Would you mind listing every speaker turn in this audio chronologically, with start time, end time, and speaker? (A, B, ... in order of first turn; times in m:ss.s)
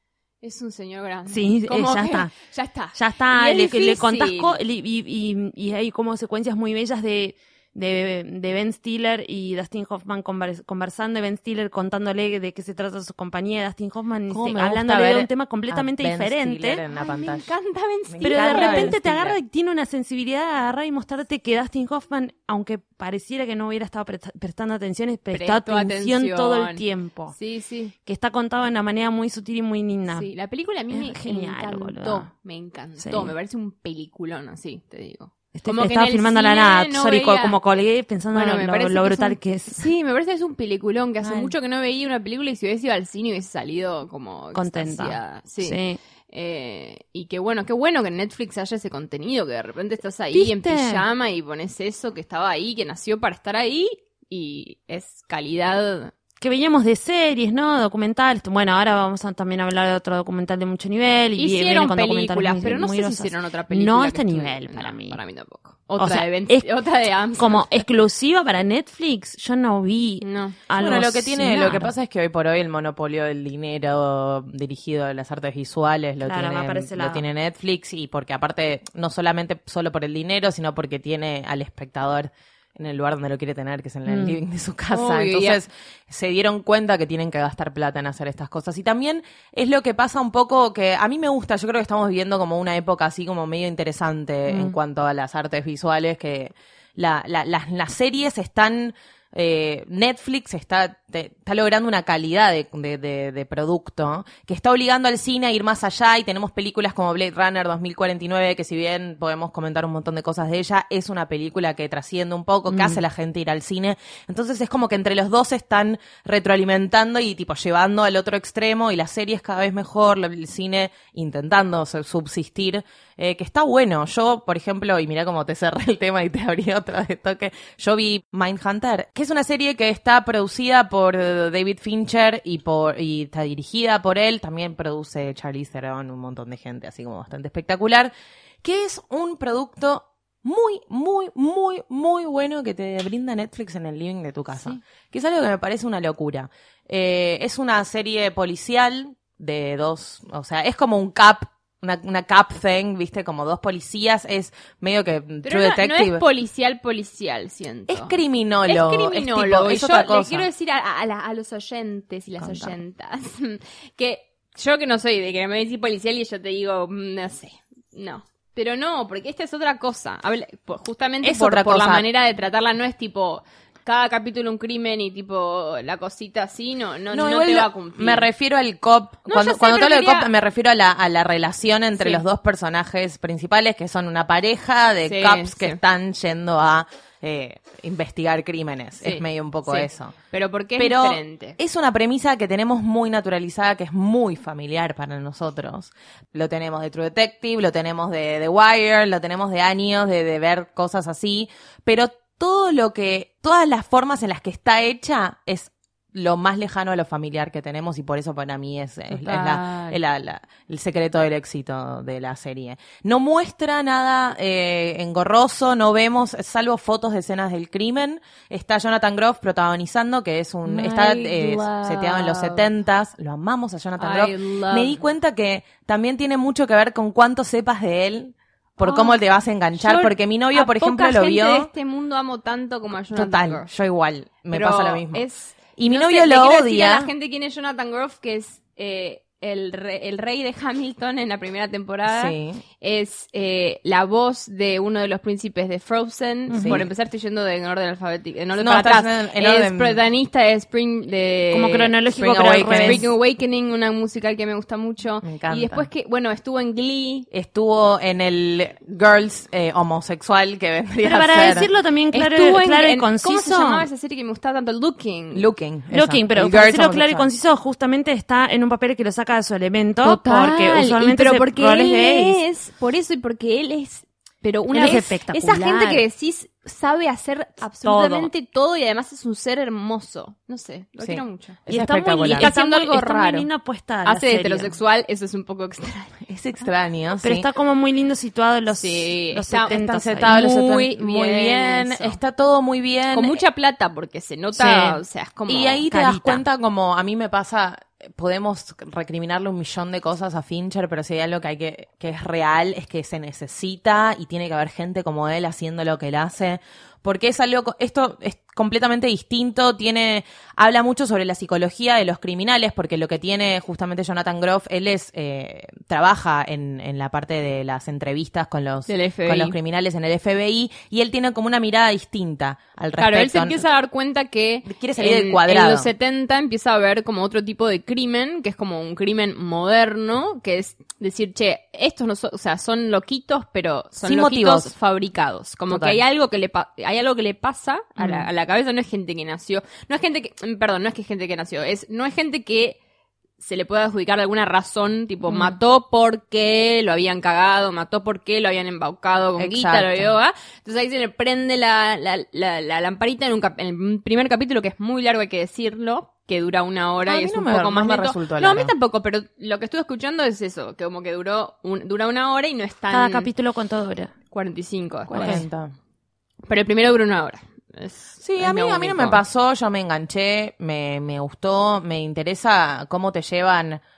0:00.4-0:04.6 A
0:01.3-0:02.3 B
0:02.9-0:16.8 B
0:14.3-0:17.5 C
0:16.9-0:19.0 A
0:18.1-0:19.4 C
0:18.2-0:27.3 B
0:25.3-0:27.9 A
0:28.0-0:30.3 B
0:30.1-0:37.6 A
0:30.9-0:32.3 B
0:33.0-0:33.3 B
0:35.5-0:39.9 B
0:38.3-0:45.8 A
0:41.2-0:41.5 B
0:44.5-0:46.0 B
0:46.3-0:56.1 A
0:50.3-0:51.0 B
0:56.4-1:05.2 B
1:01.4-1:07.8 A
1:06.0-1:06.6 B
1:07.4-1:11.9 B
1:10.2-1:10.6 A
1:10.8-2:18.1 C
1:16.2-1:17.2 B
1:24.1-1:24.4 B
1:24.9-1:25.6 A
1:52.7-1:53.0 B
2:18.6-2:36.2 C
2:35.4-2:58.3 A
2:37.9-2:40.5 C
2:51.2-2:52.0 C
2:57.1-3:10.1 C
2:59.2-3:00.3 A
3:02.0-3:02.2 A
3:05.0-3:05.8 A
3:09.0-3:11.6 A
3:10.8-3:51.7 C
3:29.1-3:30.0 A
3:40.6-3:42.7 A
3:44.0-3:45.0 A
3:48.8-3:49.2 A
3:49.7-3:53.7 A
3:53.1-3:57.1 C
3:54.5-4:12.0 A
4:02.1-4:02.6 C
4:06.5-4:06.8 B
4:06.5-4:06.8 C
4:08.6-4:10.0 C
4:11.5-4:13.1 B
4:12.2-4:13.1 C
4:12.6-4:17.3 A
4:15.2-4:15.9 C
4:17.3-4:21.7 C
4:21.0-4:23.9 B
4:22.1-4:25.4 A
4:25.3-4:27.3 C
4:25.9-4:32.4 B
4:30.0-4:41.6 A
4:34.7-4:36.0 B
4:37.8-4:38.3 B
4:41.0-4:42.5 C
4:41.7-4:44.7 B
4:42.3-4:43.5 A
4:44.0-4:46.6 A
4:46.2-4:47.5 C
4:47.2-4:50.9 B
4:48.8-4:52.2 A
4:49.7-4:53.4 C
4:53.1-4:55.8 A
4:54.5-4:55.0 B
4:55.5-5:23.6 C
4:55.9-4:56.4 B
5:18.9-5:19.6 A
5:23.0-5:42.8 A
5:24.6-5:25.9 C
5:34.0-5:34.7 C
5:35.7-5:36.0 C
5:38.0-5:38.3 B
5:43.4-6:03.3 A
5:45.3-5:45.5 B
5:49.4-5:50.1 C
5:57.0-5:58.7 C
6:02.9-6:04.1 B
6:04.3-6:05.4 A
6:05.1-6:05.7 C
6:05.1-6:05.4 B
6:06.4-6:09.2 A
6:08.2-6:13.8 C